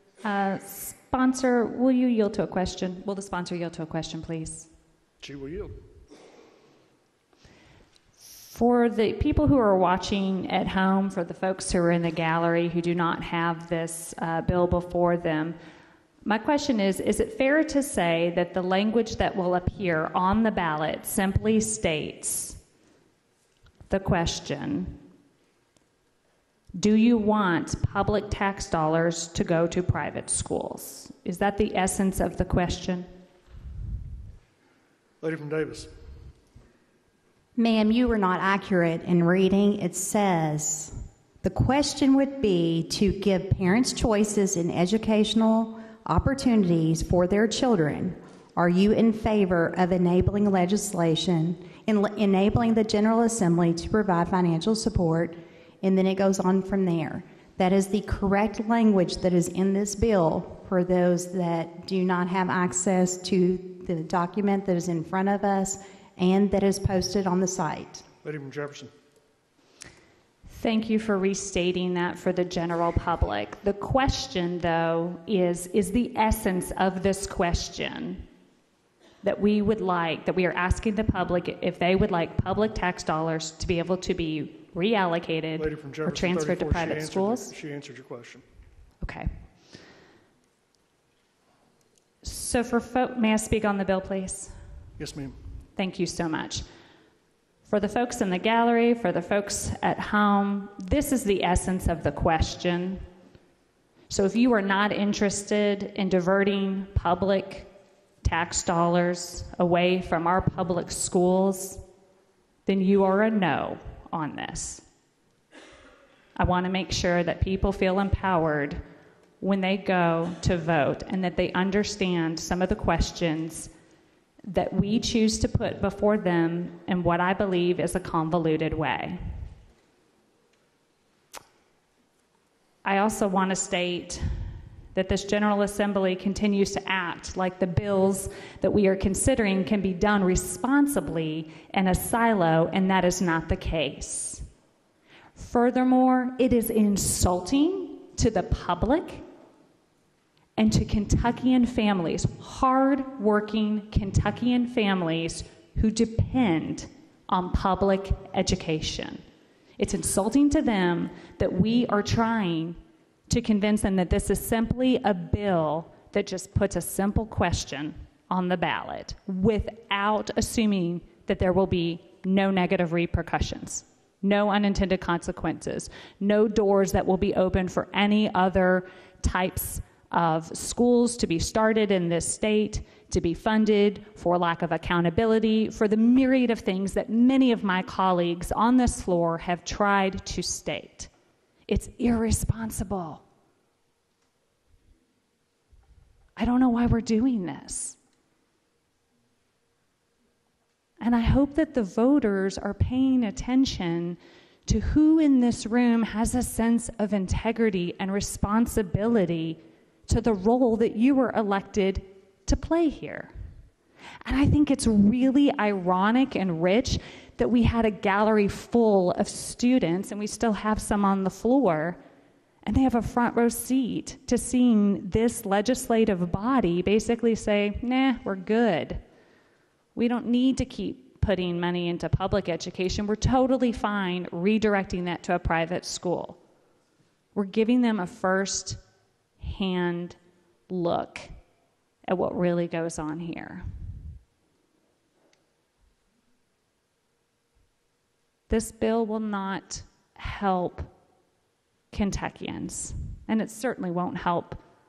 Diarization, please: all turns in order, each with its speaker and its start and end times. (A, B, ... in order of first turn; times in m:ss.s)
0:00.2-0:04.7 A
0:05.2-0:05.8 B
0:08.4-0:15.6 A
0:16.2-0:22.6 A
0:23.9-0:25.0 A
0:26.8-0:33.1 A
0:35.2-0:35.9 B
0:37.6-1:08.0 C
1:08.2-1:08.9 B
1:10.5-1:18.2 A
1:19.2-1:27.5 A
1:25.6-1:28.4 B
1:29.0-1:29.3 A
1:32.2-1:34.5 A
1:35.0-1:35.4 B
1:35.8-1:36.6 A
1:37.7-1:43.0 A
1:44.1-1:47.7 A
1:48.2-1:51.8 A
1:52.6-1:54.8 A
1:56.4-1:58.8 A
1:59.4-2:03.7 A
2:04.5-2:09.2 A
2:12.8-2:14.2 A
2:14.9-2:24.4 A
2:25.4-2:29.2 A
2:30.6-2:39.2 A
2:39.8-3:11.1 A
3:11.7-3:13.2 A
3:16.4-3:18.0 A
3:21.0-3:33.3 A
3:34.2-3:42.0 A
3:42.6-3:49.0 A
3:49.9-3:56.4 A
3:57.3-3:58.8 A
3:59.4-4:00.2 A
4:00.7-4:01.3 A
4:02.0-4:03.6 A
4:08.5-4:10.9 A
4:11.9-4:14.6 A